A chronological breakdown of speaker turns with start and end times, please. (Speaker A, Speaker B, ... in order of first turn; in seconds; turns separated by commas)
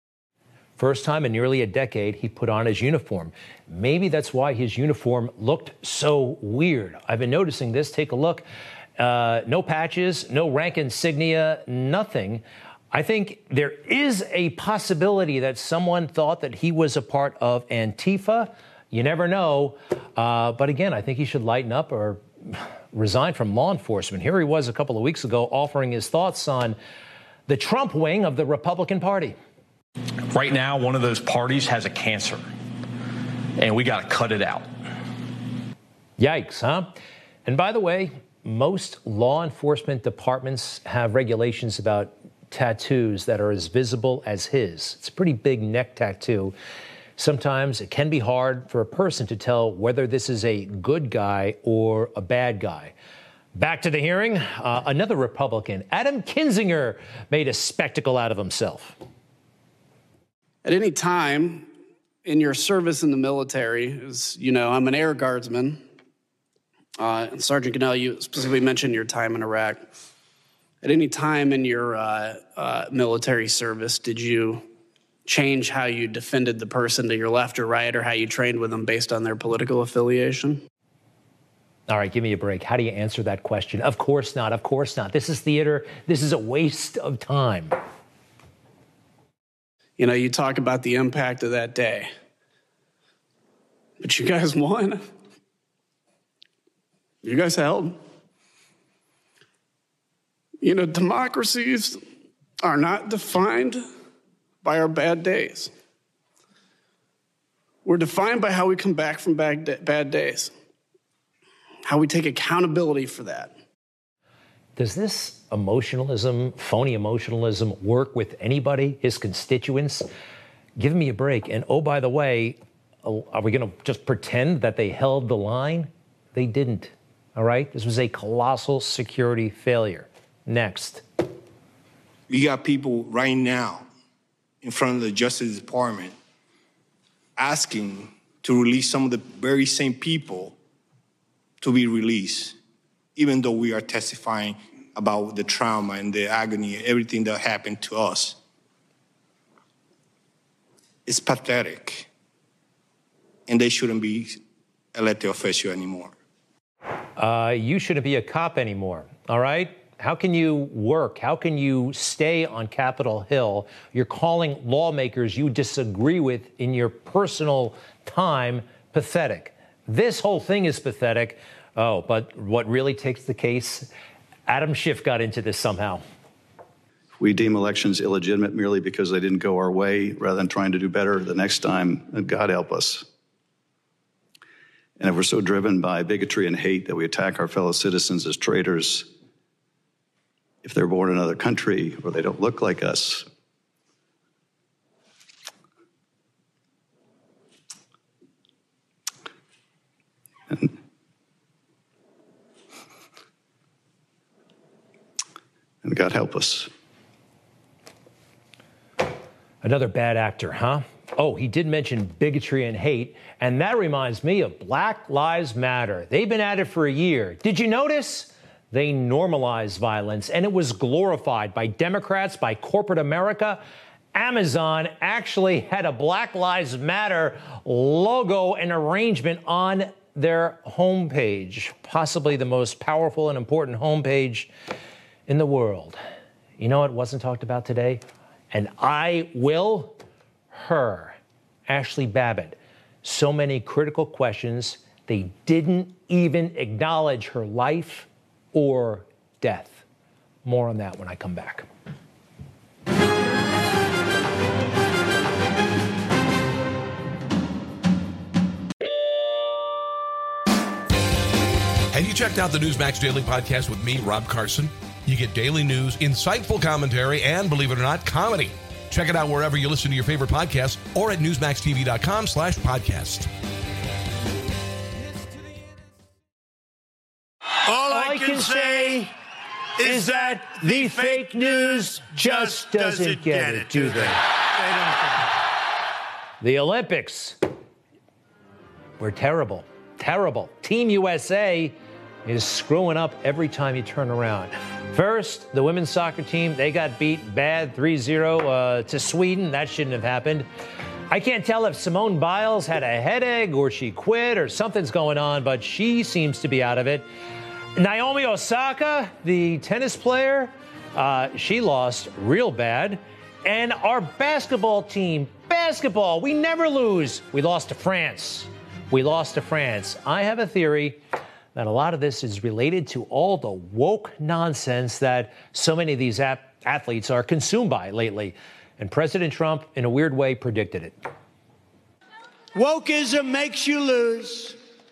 Speaker A: 0.8-8.4, Speaker A: 9.0-26.8, Speaker A: 27.5-29.4, Speaker B: 30.4-32.3, Speaker B: 33.6-34.5, Speaker A: 36.2-36.9, Speaker A: 37.5-46.5, Speaker A: 47.2-52.9, Speaker A: 53.6-59.0, Speaker C: 60.6-61.7, Speaker C: 62.2-65.8, Speaker C: 67.0-69.9, Speaker C: 70.8-74.6, Speaker C: 75.3-80.6, Speaker A: 81.9-87.8, Speaker C: 90.0-92.1, Speaker C: 94.0-95.0, Speaker C: 97.2-98.0, Speaker C: 100.6-102.0, Speaker C: 102.6-103.8, Speaker C: 104.6-105.7, Speaker C: 107.8-110.5, Speaker C: 111.8-113.5, Speaker A: 114.8-120.1, Speaker A: 120.8-131.0, Speaker D: 132.3-133.9, Speaker D: 134.6-136.1, Speaker D: 137.4-140.6, Speaker D: 141.6-142.6, Speaker D: 143.2-148.4, Speaker D: 151.1-152.1, Speaker D: 153.5-154.4, Speaker D: 154.9-156.1, Speaker A: 157.2-173.9, Speaker A: 174.5-176.0, Speaker E: 177.2-183.1, Speaker E: 185.0-189.1, Speaker E: 190.6-193.3, Speaker E: 205.8-206.7, Speaker A: 209.6-223.6, Speaker A: 224.1-234.5, Speaker A: 235.3-236.0, Speaker A: 236.6-240.0, Speaker A: 240.5-249.8, Speaker A: 250.4-251.7, Speaker F: 261.9-273.3, Speaker G: 277.7-279.0, Speaker A: 277.8-279.1, Speaker G: 279.8-285.2, Speaker A: 279.8-284.3, Speaker A: 286.4-287.4, Speaker A: 289.0-291.7, Speaker A: 292.2-300.5, Speaker A: 301.1-307.1, Speaker A: 307.8-321.0, Speaker A: 321.6-330.9, Speaker G: 332.6-334.6